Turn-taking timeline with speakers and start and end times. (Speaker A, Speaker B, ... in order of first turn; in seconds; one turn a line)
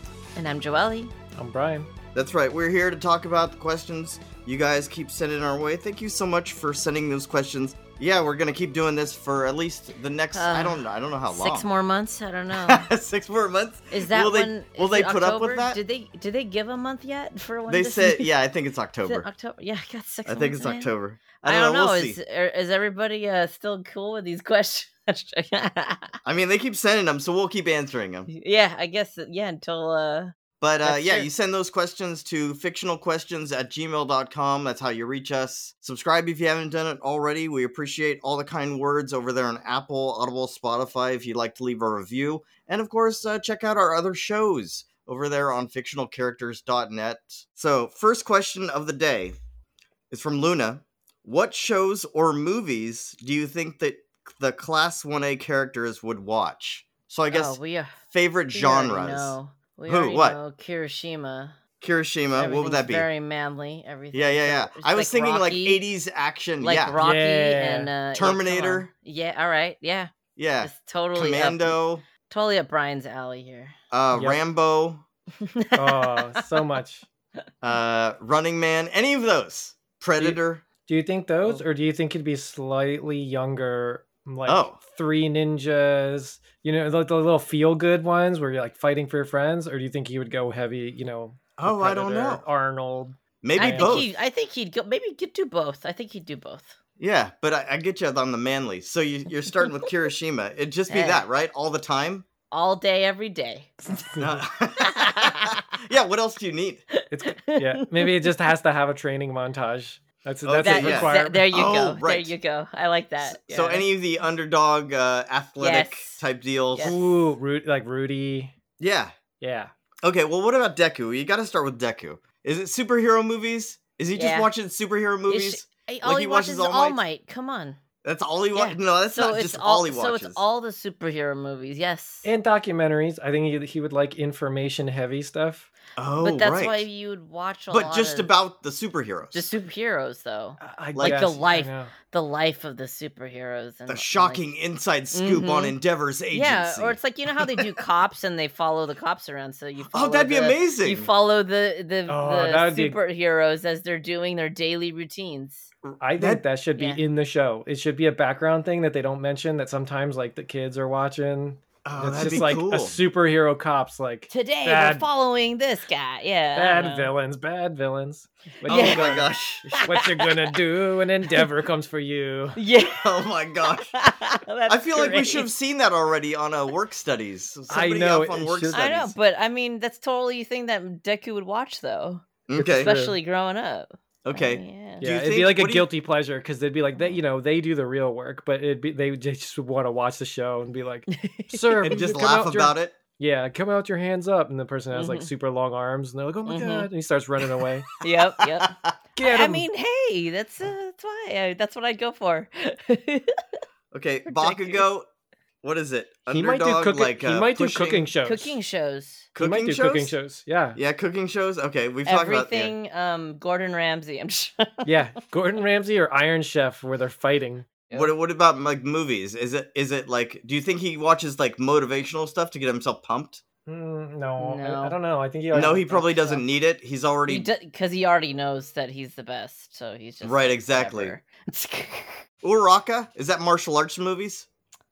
Speaker A: 0.4-1.1
Speaker B: 1.4-1.9
Speaker C: 2.1-11.7
Speaker A: 10.3-12.9
Speaker C: 12.5-15.8
Speaker A: 13.9-18.3
Speaker C: 17.7-19.3
Speaker A: 19.1-26.1
Speaker C: 20.3-22.2
Speaker C: 26.2-28.3
Speaker A: 28.3-31.3
Speaker C: 30.6-49.4
Speaker C: 50.1-57.6
Speaker A: 57.3-58.0
Speaker C: 58.1-60.4
Speaker A: 58.5-61.6
Speaker C: 61.8-63.1
Speaker A: 62.4-65.8
Speaker C: 64.1-67.0
Speaker A: 66.6-70.1
Speaker B: 67.0-67.9
Speaker C: 68.1-68.9
Speaker C: 70.4-72.0
Speaker A: 70.6-73.8
Speaker C: 73.9-75.0
Speaker B: 74.1-74.4
Speaker A: 75.4-76.6
Speaker B: 75.8-77.1
Speaker C: 77.6-80.6
Speaker B: 80.2-94.1
Speaker C: 84.5-84.8
Speaker C: 91.6-92.5
Speaker C: 93.4-94.1
Speaker A: 93.6-96.8
Speaker C: 97.0-102.3
Speaker A: 100.9-101.3
Speaker A: 102.5-103.7
Speaker B: 103.9-104.4
Speaker C: 104.2-106.8
Speaker A: 104.8-105.6
Speaker B: 107.1-111.5
Speaker A: 107.3-108.3
Speaker C: 110.5-112.3
Speaker A: 110.6-113.9
Speaker C: 113.2-117.0
Speaker A: 115.6-117.2
Speaker B: 116.8-118.5
Speaker C: 118.8-119.2
Speaker B: 119.4-119.7
Speaker C: 120.0-127.0
Speaker A: 124.2-124.5
Speaker A: 125.3-127.8
Speaker C: 128.0-130.4
Speaker A: 128.5-132.3
Speaker B: 132.2-135.7
Speaker C: 136.0-136.9
Speaker A: 136.2-138.3
Speaker C: 137.7-139.5
Speaker A: 139.3-144.5
Speaker B: 140.6-141.9
Speaker C: 140.9-141.4
Speaker C: 143.9-147.7
Speaker A: 145.1-145.8
Speaker A: 146.3-155.7
Speaker C: 149.9-151.1
Speaker B: 152.1-153.0
Speaker C: 155.9-156.4
Speaker B: 156.0-165.1
Speaker C: 161.8-163.0
Speaker A: 164.3-167.1
Speaker B: 166.6-172.6
Speaker A: 168.7-170.5
Speaker C: 168.7-169.7
Speaker A: 172.6-175.5
Speaker C: 172.9-174.0
Speaker C: 174.7-179.2
Speaker B: 177.7-178.9
Speaker A: 178.7-185.1
Speaker C: 182.5-182.9
Speaker B: 182.6-183.2
Speaker C: 184.2-185.9
Speaker B: 185.0-197.9
Speaker A: 191.1-192.1
Speaker C: 191.8-193.0
Speaker A: 194.9-195.3
Speaker A: 196.5-196.9
Speaker A: 198.0-203.4
Speaker C: 198.0-198.9
Speaker B: 199.2-199.7
Speaker C: 203.9-205.1
Speaker A: 204.3-204.8
Speaker C: 205.6-208.1
Speaker B: 206.3-208.6
Speaker A: 208.2-209.3
Speaker C: 209.3-210.2
Speaker B: 209.4-210.8
Speaker C: 210.8-212.7
Speaker A: 212.1-215.0
Speaker B: 214.9-218.1
Speaker C: 217.9-223.4
Speaker B: 223.7-226.4
Speaker A: 224.4-225.0
Speaker C: 225.5-227.5
Speaker A: 227.3-232.3
Speaker C: 230.2-231.2
Speaker C: 232.4-234.5